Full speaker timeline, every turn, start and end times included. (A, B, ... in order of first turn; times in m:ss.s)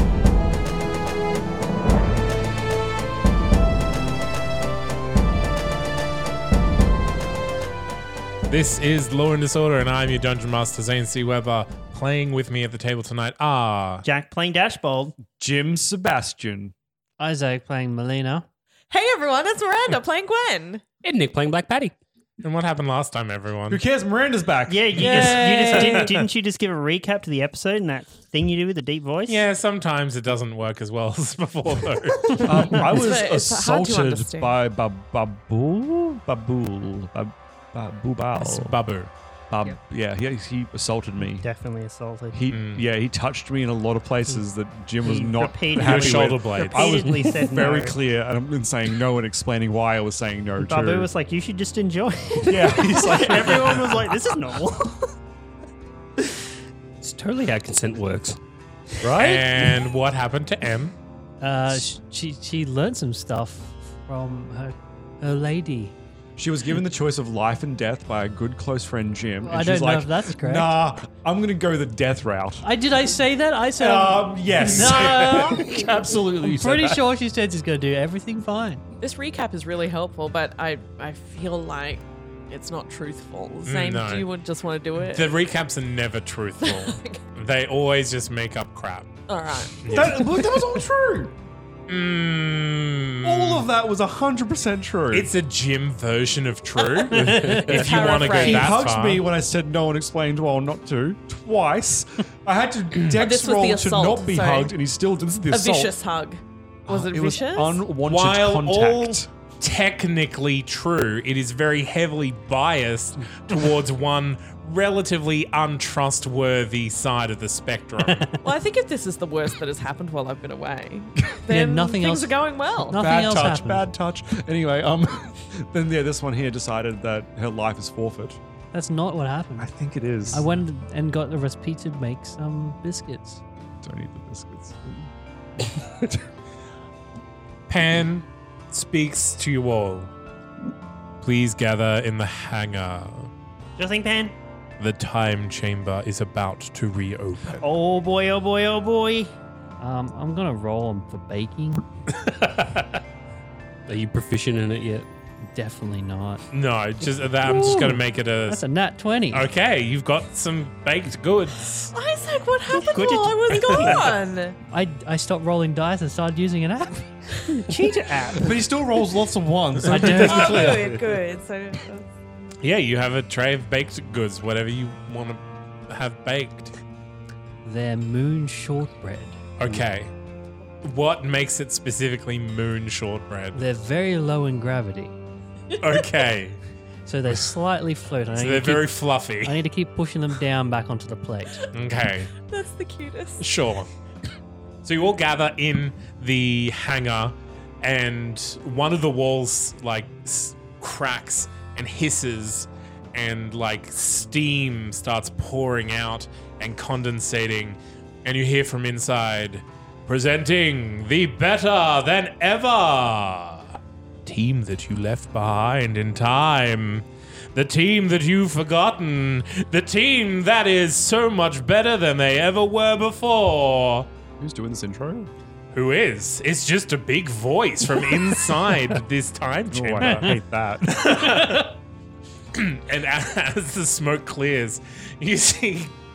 0:08.5-0:14.0 A
0:14.0-0:15.2 B
0:15.2-0:16.7 C
0:17.2-0:18.4 D
0:18.9-0:20.8 E
0:21.0-0:21.9 F
0:22.4-0:23.8 A
0:23.7-0:25.5 C
0:24.7-0:29.4 B
0:25.2-0:25.9 F
0:25.7-0:26.3 A
0:29.3-0:32.8 A
0:32.4-0:38.8 C
0:32.9-0:34.5 E
0:38.4-0:39.1 A
0:39.5-0:41.5 C
0:41.2-0:42.4 B
0:42.3-0:51.1 C
0:42.5-0:42.8 A
0:45.0-0:48.0 B
0:45.8-0:47.2 A
0:50.6-0:55.1 B
0:52.4-0:54.1 C
0:57.0-0:58.4 F
0:59.0-0:59.4 F
0:59.2-1:00.9 A
1:01.4-1:05.9 D
1:06.4-1:12.6 C
1:09.4-1:10.8 D
1:12.6-1:18.8 D
1:13.8-1:17.1 C
1:19.0-1:25.3 E
1:23.6-1:24.2 A
1:25.0-1:29.1 A
1:26.6-1:27.2 E
1:29.3-1:30.1 E
1:29.8-1:30.4 A
1:29.9-1:31.4 C
1:31.9-1:33.7 A
1:33.2-1:35.3 C
1:35.1-1:39.2 A
1:36.8-1:38.8 E
1:37.1-1:45.9 C
1:43.1-1:44.8 E
1:45.5-1:47.8 E
1:46.9-1:49.3 C
1:48.0-1:58.3 A
1:58.1-1:58.4 D
1:58.4-2:03.1 E
2:01.5-2:03.9 D
2:02.9-2:08.4 C
2:08.7-2:09.7 D
2:09.6-2:10.5 C
2:10.3-2:13.4 D
2:13.8-2:16.2 C
2:17.7-2:20.1 A
2:21.2-2:23.3 A
2:23.8-2:24.3 B
2:24.8-2:27.6 A
2:27.6-2:29.3 B
2:29.8-2:31.8 D
2:33.9-2:35.1 F
2:35.4-2:36.4 D
2:36.5-2:38.6 A
2:37.4-2:39.5 D
2:39.3-2:41.9 A
2:41.9-2:44.6 E
2:42.7-2:44.1 B
2:44.7-2:47.4 D
2:47.7-2:48.6 B
2:48.4-2:51.2 C
2:49.9-2:50.8 D
2:50.1-2:52.1 E
2:52.6-2:56.7 A
2:57.6-2:59.4 D
2:59.6-3:00.1 A
3:00.8-3:03.6 A
3:03.5-3:05.2 D
3:05.8-3:06.6 A
3:07.0-3:11.6 D
3:08.4-3:09.6 A
3:11.7-3:12.3 A
3:12.5-3:13.4 E
3:13.4-3:13.9 A
3:14.8-3:44.1 A
3:44.4-3:45.3 C
3:45.7-3:50.4 A
3:49.7-3:51.6 C
3:50.9-3:51.7 A
3:52.5-3:55.9 A